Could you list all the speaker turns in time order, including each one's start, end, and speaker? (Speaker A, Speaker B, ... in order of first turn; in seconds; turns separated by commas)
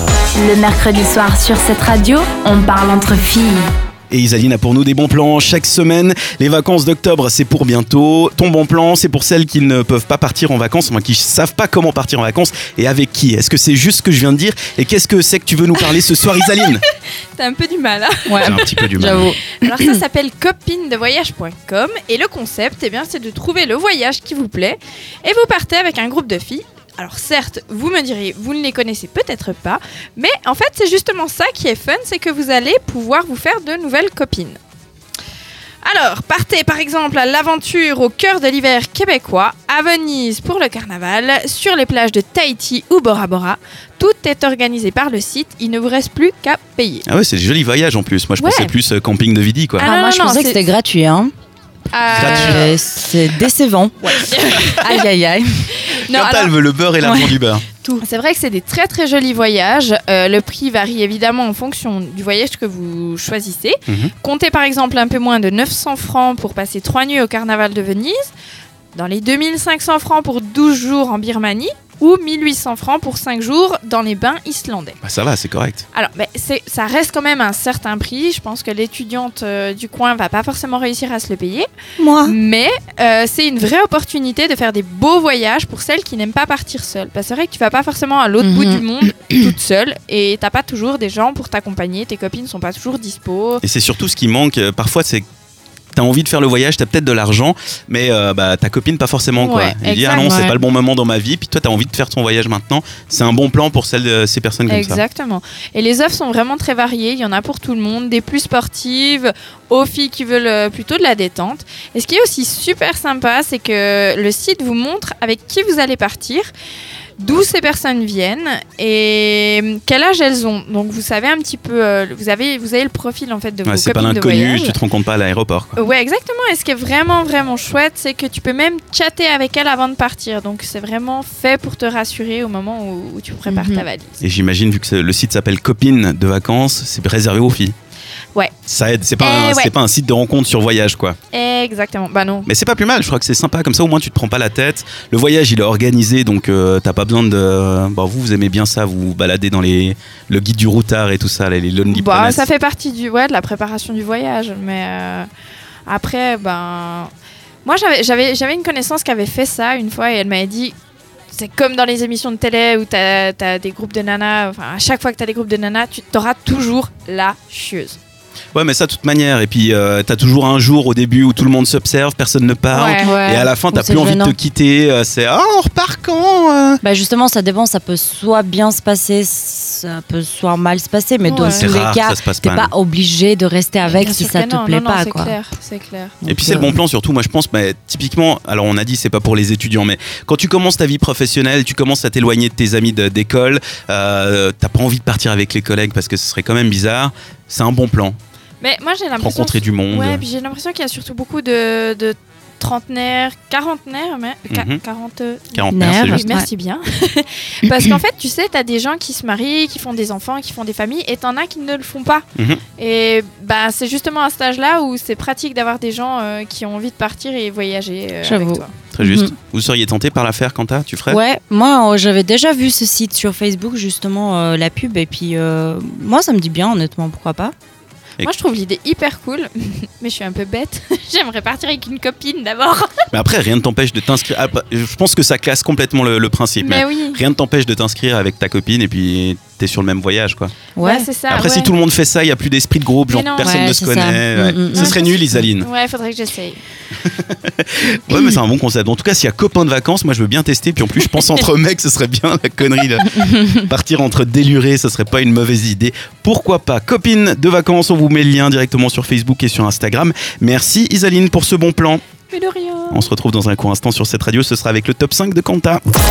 Speaker A: 0.3-3.6, Speaker B: 4.1-16.8, Speaker C: 15.8-16.7, Speaker C: 17.4-34.6, Speaker D: 18.2-20.0, Speaker B: 18.4-19.3, Speaker C: 35.8-47.0, Speaker B: 47.0-49.9, Speaker C: 48.4-48.7, Speaker C: 49.8-50.6, Speaker D: 49.8-51.3, Speaker C: 51.9-52.8, Speaker B: 52.1-52.7, Speaker D: 52.1-55.4, Speaker C: 54.0-55.0, Speaker C: 55.9-56.5, Speaker B: 56.1-57.6, Speaker D: 57.0-58.0, Speaker C: 58.0-68.3, Speaker B: 63.9-64.1, Speaker C: 68.9-75.0, Speaker B: 75.0-75.8, Speaker C: 75.9-81.7, Speaker D: 82.0-82.3, Speaker C: 82.2-93.6, Speaker D: 88.4-89.5, Speaker B: 93.6-95.2, Speaker B: 95.9-105.0, Speaker C: 99.4-100.6, Speaker D: 100.3-100.5, Speaker C: 104.7-116.5, Speaker C: 117.2-124.8, Speaker B: 123.7-125.8, Speaker C: 125.8-134.2, Speaker D: 133.4-133.8, Speaker B: 134.2-137.7, Speaker B: 138.7-141.2, Speaker C: 139.2-139.7, Speaker C: 141.3-142.5, Speaker B: 142.4-152.5, Speaker C: 151.9-155.3, Speaker C: 155.9-157.1, Speaker C: 157.6-160.7, Speaker C: 161.3-168.0, Speaker B: 168.5-176.8, Speaker C: 172.7-173.2, Speaker D: 173.0-174.3, Speaker D: 176.8-185.3, Speaker C: 181.2-181.7, Speaker B: 181.5-182.7, Speaker C: 183.8-186.2, Speaker D: 186.2-186.8, Speaker B: 186.3-198.2, Speaker C: 198.6-212.2, Speaker B: 199.2-200.2, Speaker B: 204.5-204.8, Speaker B: 205.5-206.2, Speaker D: 205.7-206.5, Speaker B: 212.3-212.6, Speaker C: 212.8-218.7, Speaker D: 218.2-219.3, Speaker B: 218.9-221.2, Speaker D: 221.1-227.5, Speaker C: 228.2-233.0, Speaker B: 233.1-240.5, Speaker C: 236.6-237.2, Speaker D: 240.8-241.1, Speaker C: 240.8-241.7, Speaker B: 241.3-245.7, Speaker C: 243.1-243.7, Speaker D: 243.4-244.9, Speaker C: 244.7-246.6, Speaker B: 247.0-262.0, Speaker D: 248.1-248.4, Speaker C: 262.3-263.1, Speaker B: 262.9-265.8